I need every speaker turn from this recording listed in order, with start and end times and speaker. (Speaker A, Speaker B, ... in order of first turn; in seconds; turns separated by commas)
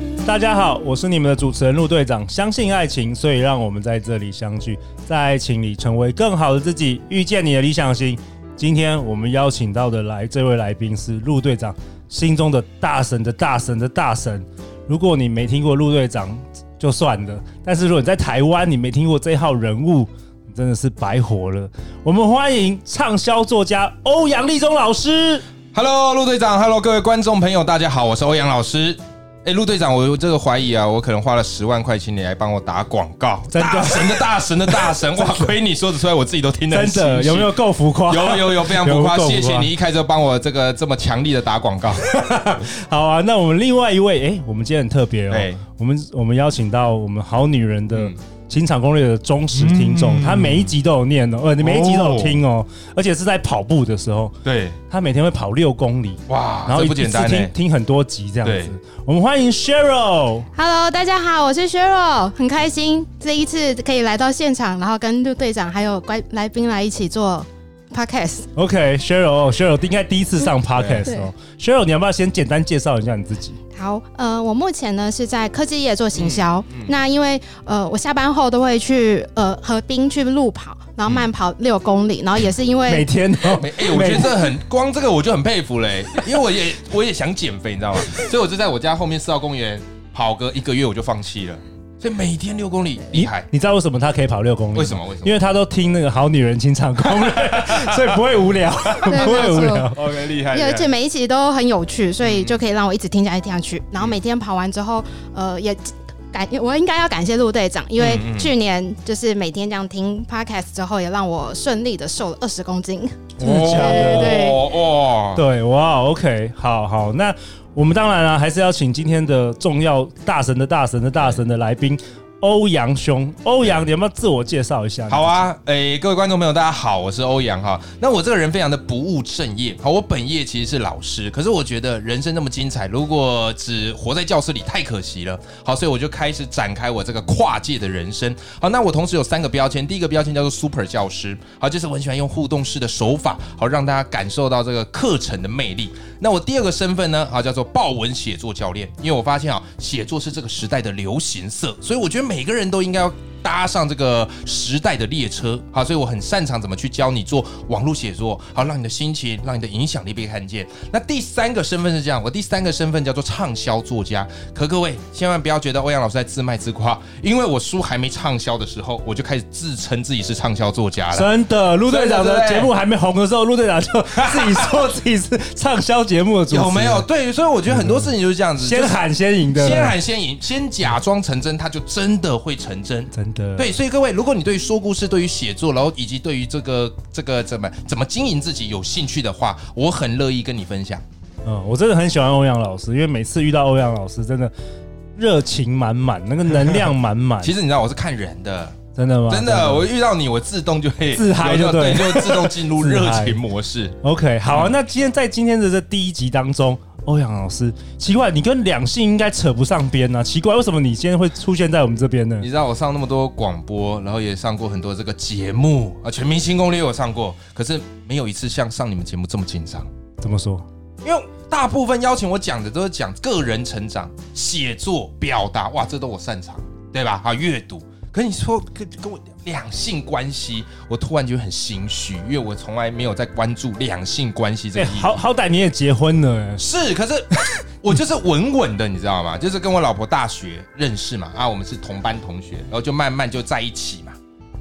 Speaker A: 0.2-25.4, Speaker B: 25.7-42.0, Speaker A: 33.5-35.5, Speaker A: 36.7-39.7, Speaker A: 42.0-54.4, Speaker B: 45.3-45.6, Speaker B: 49.5-50.7, Speaker B: 51.6-52.4, Speaker B: 54.4-54.8, Speaker A: 54.9-60.5, Speaker B: 56.3-57.5, Speaker B: 58.4-58.8, Speaker C: 60.5-68.5, Speaker A: 68.6-73.6, Speaker B: 70.7-71.1, Speaker C: 73.7-83.1, Speaker B: 76.1-76.9, Speaker A: 82.9-84.4, Speaker B: 83.4-93.5, Speaker A: 93.1-100.0, Speaker B: 94.7-95.4, Speaker B: 97.0-98.2, Speaker B: 98.8-100.9, Speaker C: 99.1-114.6, Speaker B: 102.2-102.6, Speaker B: 108.0-108.5, Speaker A: 113.4-114.5, Speaker B: 113.4-115.4, Speaker A: 115.3-125.4, Speaker B: 125.1-171.3, Speaker A: 171.1-177.1, Speaker B: 171.9-172.7, Speaker B: 174.2-174.9, Speaker B: 176.5-191.0, Speaker A: 177.7-180.0, Speaker A: 183.1-183.7, Speaker A: 191.4-194.5, Speaker A: 195.2-197.5, Speaker B: 197.4-198.8, Speaker A: 199.0-199.9, Speaker B: 199.3-204.7, Speaker A: 201.2-203.4, Speaker A: 204.0-212.5, Speaker B: 212.4-219.9, Speaker A: 220.2-220.7, Speaker B: 221.0-235.2, Speaker A: 234.8-236.6, Speaker B: 236.6-244.2